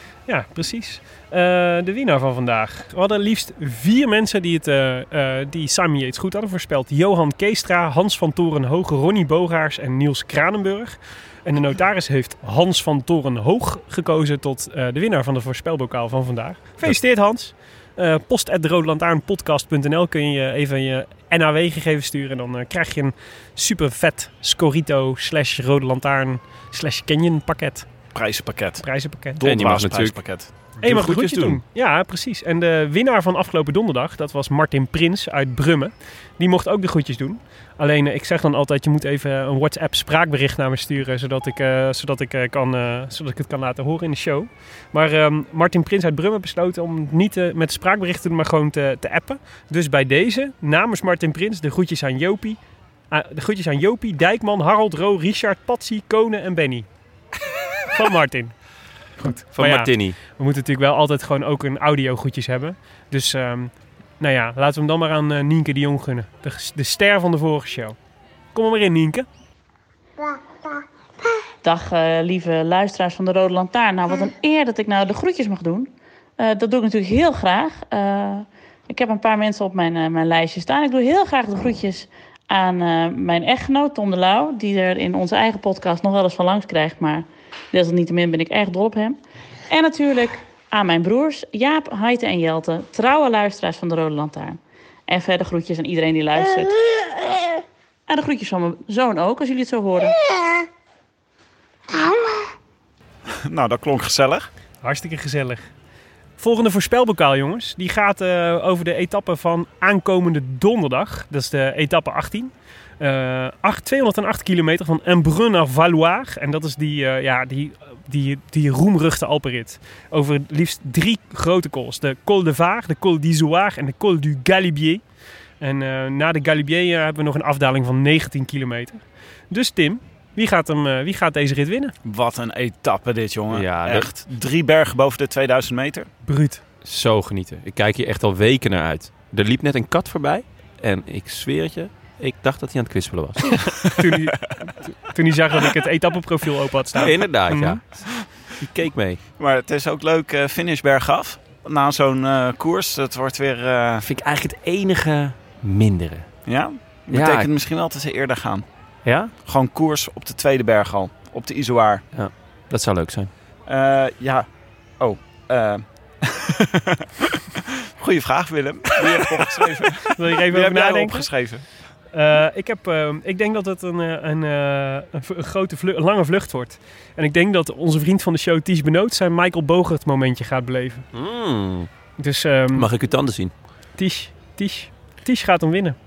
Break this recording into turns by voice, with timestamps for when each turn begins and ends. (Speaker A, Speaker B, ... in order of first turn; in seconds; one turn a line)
Speaker A: 0.3-27.9
Speaker B: 28.1-28.8
Speaker A: 28.8-29.4
Speaker B: 29.4-30.5
Speaker C: 29.4-30.2
Speaker C: 30.8-31.6
Speaker A: 30.8-52.6
Speaker A: 53.1-56.9
Speaker A: 57.9-58.5
Speaker A: 59.2-68.0
Speaker C: 59.5-60.2
Speaker A: 68.5-69.3
Speaker D: 71.6-89.2
Speaker D: 89.7-96.8
Speaker D: 98.1-100.2
Speaker B: 103.3-104.5
Speaker A: 104.8-105.7
Speaker A: 106.4-125.0
Speaker A: 125.6-131.9
Speaker B: 132.0-136.1
Speaker C: 133.5-134.1
Speaker A: 136.3-136.6
Speaker C: 136.8-143.7
Speaker A: 143.9-147.8
Speaker C: 147.0-149.2
Speaker B: 149.4-154.1
Speaker C: 154.0-156.3
Speaker B: 156.5-158.7
Speaker C: 157.1-157.5
Speaker C: 159.1-159.3
Speaker B: 159.4-162.0
Speaker C: 162.1-163.3
Speaker B: 163.7-164.5
Speaker B: 165.0-171.6
Speaker A: 170.1-171.3
Speaker A: 172.1-181.1
Speaker C: 181.1-181.9
Speaker A: 182.2-182.9
Speaker C: 182.7-183.5
Speaker A: 184.0-186.0